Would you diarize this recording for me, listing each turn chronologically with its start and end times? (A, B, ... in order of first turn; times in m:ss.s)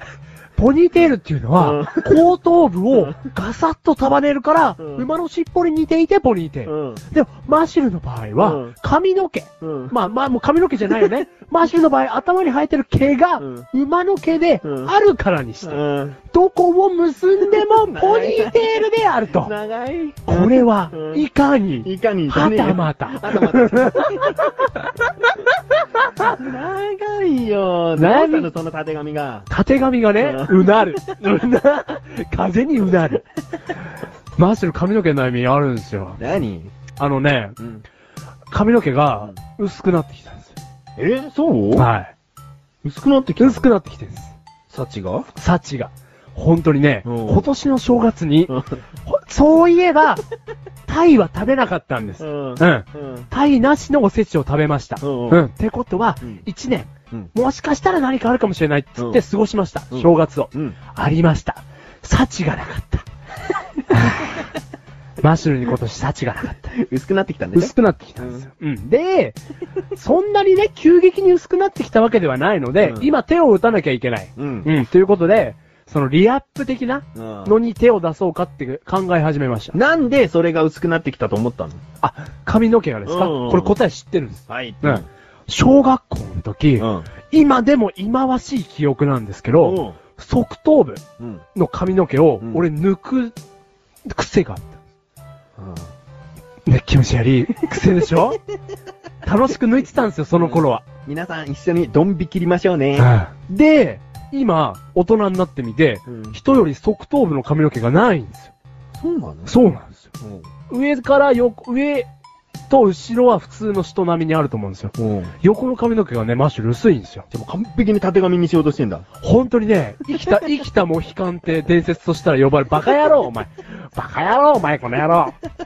0:00.6-0:19.5 A
0:01.6-0:02.2 B
0:04.8-0:05.0 B
0:06.6-0:07.0 B
0:08.4-0:08.7 B
0:09.6-0:09.9 B
0:13.4-0:13.7 B
0:14.6-0:14.9 B
0:15.6-0:16.2 B
0:17.9-0:21.2 B
0:20.3-0:24.9 A
0:21.8-0:24.3 B
0:26.0-0:26.3 A
0:26.2-0:29.5 B
0:28.0-0:28.5 A
0:29.5-0:33.2 A
0:30.2-0:31.0 B
0:34.4-0:36.2 A
0:36.2-0:36.7 B
0:37.0-0:37.6 A
0:38.5-0:40.6 A
0:41.0-0:41.9 B
0:41.7-0:42.1 A
0:42.8-0:43.7 B
0:43.4-0:44.3 A
0:44.7-0:45.3 B
0:45.3-0:50.2 A
0:47.0-0:47.5 B
0:50.9-1:03.0 A
0:52.2-0:53.3 B
0:55.0-0:55.4 B
0:59.9-1:00.8 B
1:03.9-1:04.5 A
1:05.2-1:06.7 A
1:06.6-1:08.5 B
1:07.5-1:09.4 A
1:09.9-1:19.7 A
1:12.8-1:13.1 B
1:14.4-1:14.7 B
1:17.1-1:17.6 B
1:19.7-1:21.8 B
1:22.0-1:31.0 A
1:23.0-1:23.8 B
1:24.5-1:25.0 B
1:26.8-1:27.1 B
1:29.6-1:30.0 B
1:31.5-1:33.3 A
1:34.1-1:34.8 A
1:35.6-1:35.9 B
1:36.6-1:38.4 A
1:39.2-1:40.8 A
1:40.3-1:43.1 B
1:43.0-1:48.5 A
1:46.1-1:46.4 B
1:48.9-1:49.5 B
1:49.4-1:50.1 A
1:50.2-1:50.5 B
1:50.7-1:52.1 A
1:52.7-1:57.2 A
1:55.0-1:55.3 B
1:57.3-1:59.0 B
1:59.2-2:05.4 A